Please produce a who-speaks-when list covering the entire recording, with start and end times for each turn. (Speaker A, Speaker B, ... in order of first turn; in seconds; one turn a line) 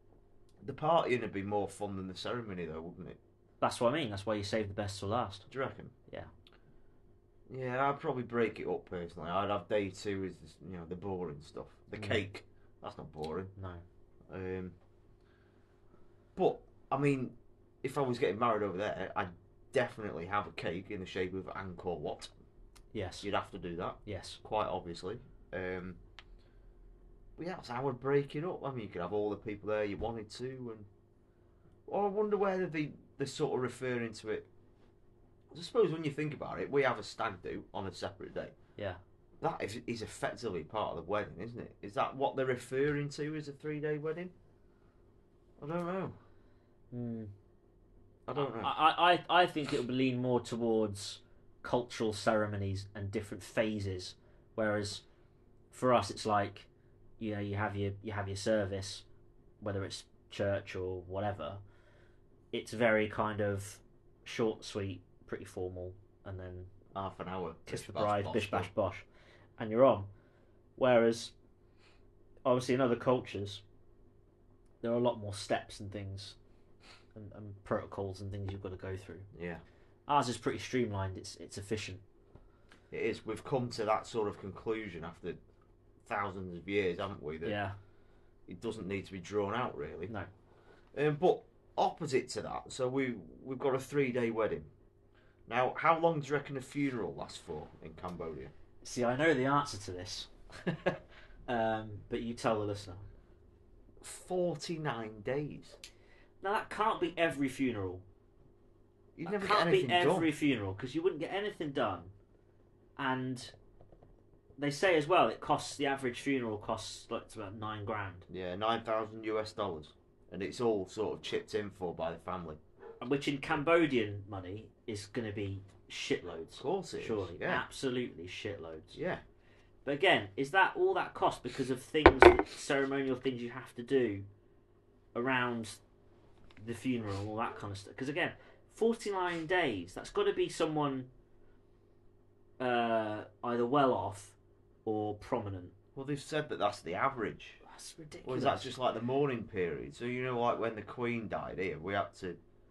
Speaker A: 0.6-3.2
Speaker B: 3.6-5.5
Speaker A: 5.5-5.9
Speaker A: 7.5-13.5
Speaker B: 11.9-12.2
Speaker B: 13.6-13.8
Speaker A: 14.3-14.7
Speaker A: 16.4-22.3
Speaker B: 22.9-23.3
Speaker A: 23.2-26.0
Speaker B: 24.1-24.4
Speaker A: 27.4-30.9
Speaker A: 31.9-34.5
Speaker A: 35.5-38.5
Speaker A: 39.4-44.3
Speaker A: 45.6-46.2
Speaker B: 46.9-47.3
Speaker A: 48.3-48.7
Speaker B: 48.4-55.0
Speaker B: 55.7-56.7
Speaker B: 57.2-59.0
Speaker B: 59.6-61.6
Speaker B: 62.5-66.7
Speaker A: 66.9-68.7
Speaker B: 67.7-69.1
Speaker B: 69.6-70.1
Speaker B: 70.8-71.3
Speaker B: 72.5-73.6
Speaker B: 74.8-76.4
Speaker B: 77.2-79.3
Speaker A: 79.3-79.6
Speaker B: 80.1-82.0
Speaker A: 82.9-85.4
Speaker A: 86.0-87.6
Speaker B: 87.4-87.8
Speaker A: 88.5-90.1
Speaker A: 90.9-94.7
Speaker A: 95.5-98.5
Speaker B: 98.8-103.1
Speaker A: 104.0-105.8
Speaker B: 106.4-108.0
Speaker A: 109.2-110.3
Speaker B: 109.2-112.1
Speaker B: 113.0-113.5
Speaker B: 114.6-118.3
Speaker A: 118.3-122.6
Speaker B: 123.0-129.0
Speaker A: 126.6-127.7
Speaker A: 128.9-129.2
Speaker B: 129.8-134.2
Speaker B: 135.2-135.8
Speaker B: 136.6-141.1
Speaker B: 142.6-145.7
Speaker A: 145.9-147.6
Speaker B: 147.6-148.7
Speaker A: 148.2-152.4